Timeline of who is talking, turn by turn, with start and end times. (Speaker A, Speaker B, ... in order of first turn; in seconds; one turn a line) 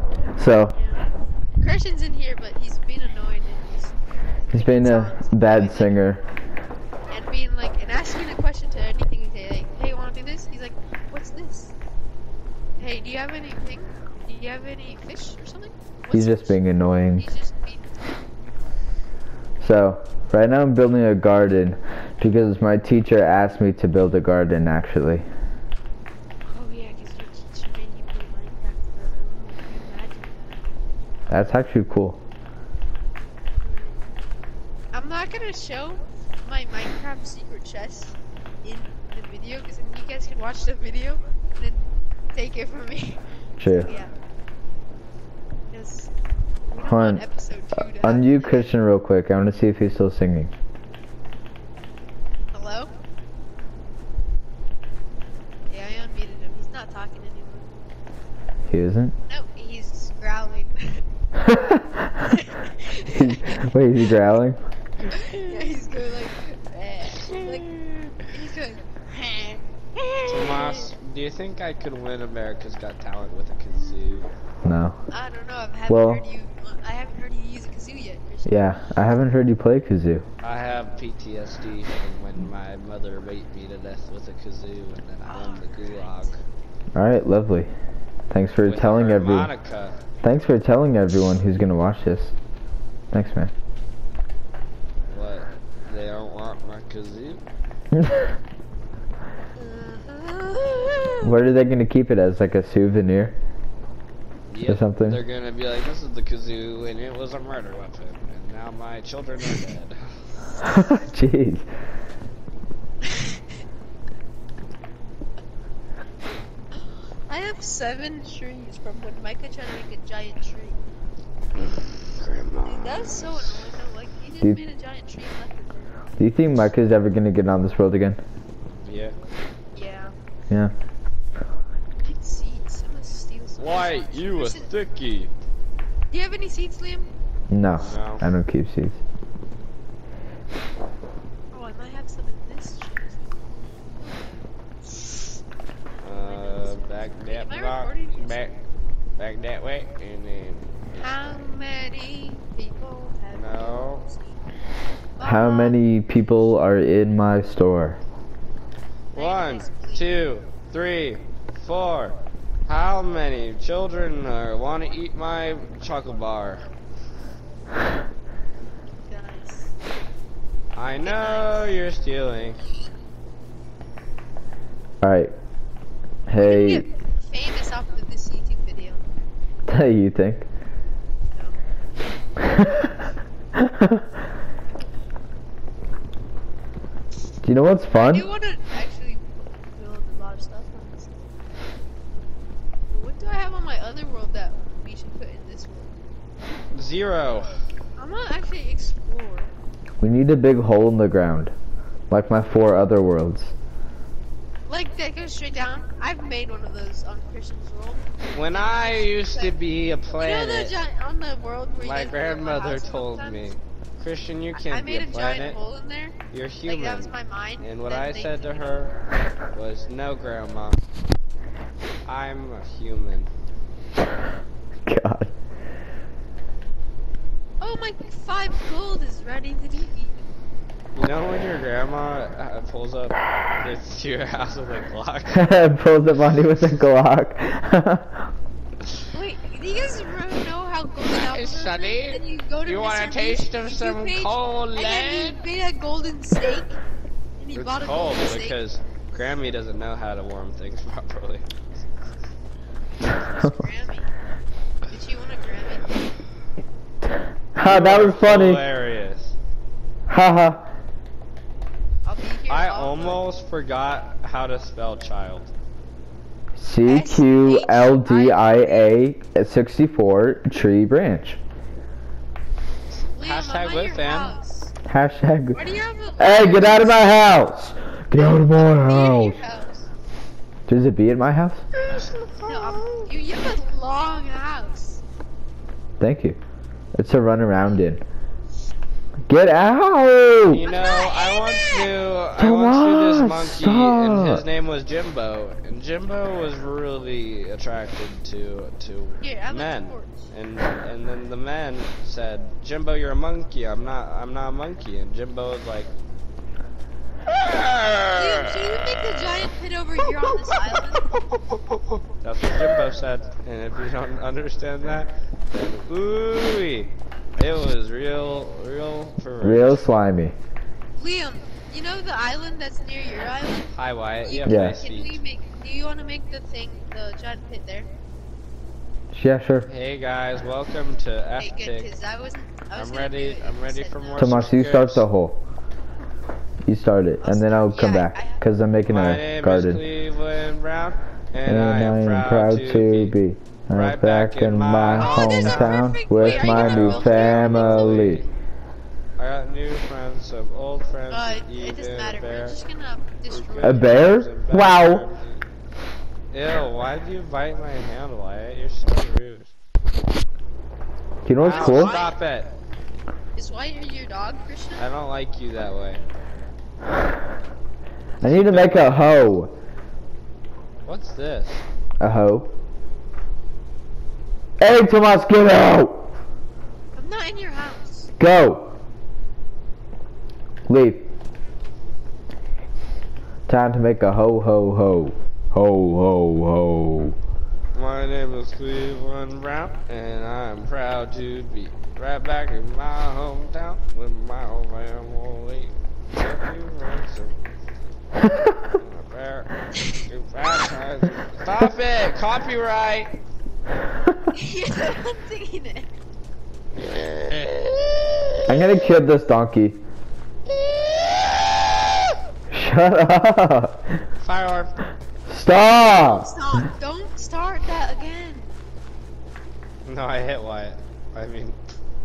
Speaker A: 0.3-0.7
Speaker B: 0.7-1.0
Speaker B: 1.6-6.0
Speaker A: 4.5-6.2
Speaker B: 7.1-11.7
Speaker B: 12.8-16.6
Speaker A: 16.1-17.2
Speaker B: 17.1-18.1
Speaker A: 19.6-25.3
Speaker B: 26.5-30.7
Speaker A: 31.3-32.2
Speaker B: 33.6-34.0
Speaker B: 34.9-44.1
Speaker A: 43.6-43.9
Speaker B: 45.7-46.1
Speaker B: 46.7-48.7
Speaker A: 46.8-47.2
Speaker A: 47.7-50.5
Speaker B: 52.5-52.9
Speaker B: 55.7-57.8
Speaker A: 58.7-59.1
Speaker B: 59.3-61.0
Speaker A: 61.4-62.2
Speaker B: 62.2-63.6
Speaker A: 63.1-64.6
Speaker B: 65.1-70.9
Speaker C: 67.2-67.7
Speaker C: 70.3-74.3
Speaker B: 73.7-74.2
Speaker A: 74.6-75.0
Speaker B: 75.1-78.8
Speaker A: 75.9-76.2
Speaker A: 78.5-80.2
Speaker C: 80.4-86.3
Speaker B: 85.3-86.4
Speaker A: 86.9-87.7
Speaker A: 88.3-89.5
Speaker C: 88.7-90.0
Speaker A: 90.2-92.3
Speaker A: 93.1-93.5
Speaker C: 95.1-97.4
Speaker A: 97.9-98.3
Speaker B: 99.6-101.3
Speaker A: 101.2-103.4
Speaker C: 104.5-110.0
Speaker A: 104.6-105.2
Speaker A: 110.6-111.7
Speaker B: 113.1-113.4
Speaker B: 117.3-120.8
Speaker C: 121.6-123.5
Speaker B: 122.6-125.9
Speaker A: 126.2-128.2
Speaker C: 128.8-129.2
Speaker B: 129.7-130.1
Speaker B: 132.0-135.0
Speaker C: 133.6-135.3
Speaker B: 136.1-137.1
Speaker A: 137.5-139.0
Speaker C: 137.8-138.2
Speaker B: 141.5-143.2
Speaker C: 146.0-148.5
Speaker B: 146.1-148.5
Speaker C: 149.2-150.7
Speaker B: 150.9-154.4
Speaker C: 153.3-154.0
Speaker B: 155.2-155.8
Speaker A: 155.2-158.0
Speaker C: 159.1-162.1
Speaker B: 159.2-160.2
Speaker C: 162.7-166.6
Speaker B: 169.1-169.7
Speaker C: 170.7-172.6
Speaker B: 171.0-171.7
Speaker A: 175.0-175.3
Speaker A: 176.3-176.8
Speaker B: 176.4-179.0
Speaker A: 179.7-180.4
Speaker A: 182.4-183.0
Speaker A: 183.5-184.1
Speaker A: 187.4-188.2
Speaker B: 187.9-191.3
Speaker B: 192.9-195.9
Speaker C: 196.7-197.5
Speaker B: 198.0-199.5
Speaker A: 200.0-201.5
Speaker A: 202.1-203.5
Speaker B: 204.7-209.6
Speaker C: 208.3-210.7
Speaker B: 210.2-213.6
Speaker C: 211.8-215.6
Speaker B: 214.6-218.9
Speaker C: 216.3-218.9
Speaker C: 219.5-220.8
Speaker C: 222.0-223.3
Speaker A: 224.8-225.3
Speaker B: 227.6-230.2
Speaker C: 230.9-235.4
Speaker A: 235.3-238.3
Speaker B: 239.1-246.8
Speaker C: 241.1-245.4
Speaker B: 247.4-248.6
Speaker C: 247.5-251.5
Speaker B: 253.0-254.1
Speaker B: 254.9-256.1
Speaker A: 257.5-258.6
Speaker C: 257.6-259.3
Speaker A: 260.1-260.7
Speaker B: 262.0-263.2
Speaker C: 262.5-265.5
Speaker A: 266.6-271.4
Speaker B: 266.8-268.9
Speaker B: 273.1-274.7
Speaker C: 273.2-274.3
Speaker A: 274.9-275.6
Speaker B: 275.5-277.0
Speaker A: 276.2-279.4
Speaker B: 278.2-279.9
Speaker A: 280.7-281.6
Speaker C: 281.8-283.1
Speaker B: 282.4-285.0
Speaker A: 286.0-286.4
Speaker A: 286.9-288.0
Speaker A: 289.3-290.6
Speaker C: 290.5-305.9
Speaker B: 290.6-291.9
Speaker A: 292.4-294.4
Speaker B: 299.2-300.3
Speaker C: 307.3-308.8
Speaker B: 308.1-311.1
Speaker C: 311.5-319.8
Speaker A: 319.4-320.3
Speaker B: 321.0-327.9
Speaker C: 323.7-325.2
Speaker A: 324.4-324.8
Speaker A: 329.1-329.7
Speaker C: 329.7-331.9
Speaker B: 331.4-334.6
Speaker C: 332.7-335.0
Speaker A: 334.2-335.4
Speaker A: 336.6-339.8
Speaker B: 337.2-338.4
Speaker C: 338.9-343.1
Speaker A: 341.4-348.2
Speaker C: 343.7-348.3
Speaker B: 344.9-348.1
Speaker C: 349.2-352.6
Speaker B: 351.1-354.1
Speaker C: 353.3-355.4
Speaker A: 353.6-355.1
Speaker C: 356.3-359.5
Speaker A: 361.2-362.0
Speaker C: 361.4-362.5
Speaker B: 361.5-362.2
Speaker B: 363.4-364.8
Speaker C: 364.8-366.0
Speaker C: 368.2-369.1
Speaker A: 368.2-369.5
Speaker C: 370.8-371.6
Speaker A: 372.0-372.5
Speaker A: 374.6-376.1
Speaker B: 376.9-378.1
Speaker A: 378.2-378.7
Speaker A: 380.7-381.1
Speaker A: 383.5-387.2
Speaker C: 387.7-397.4
Speaker C: 398.6-403.1
Speaker B: 404.3-405.9
Speaker C: 406.8-408.5
Speaker A: 408.5-409.8
Speaker C: 410.5-412.1
Speaker A: 412.5-413.9
Speaker C: 414.2-414.8
Speaker A: 415.3-416.3
Speaker B: 415.8-418.5
Speaker C: 419.8-421.6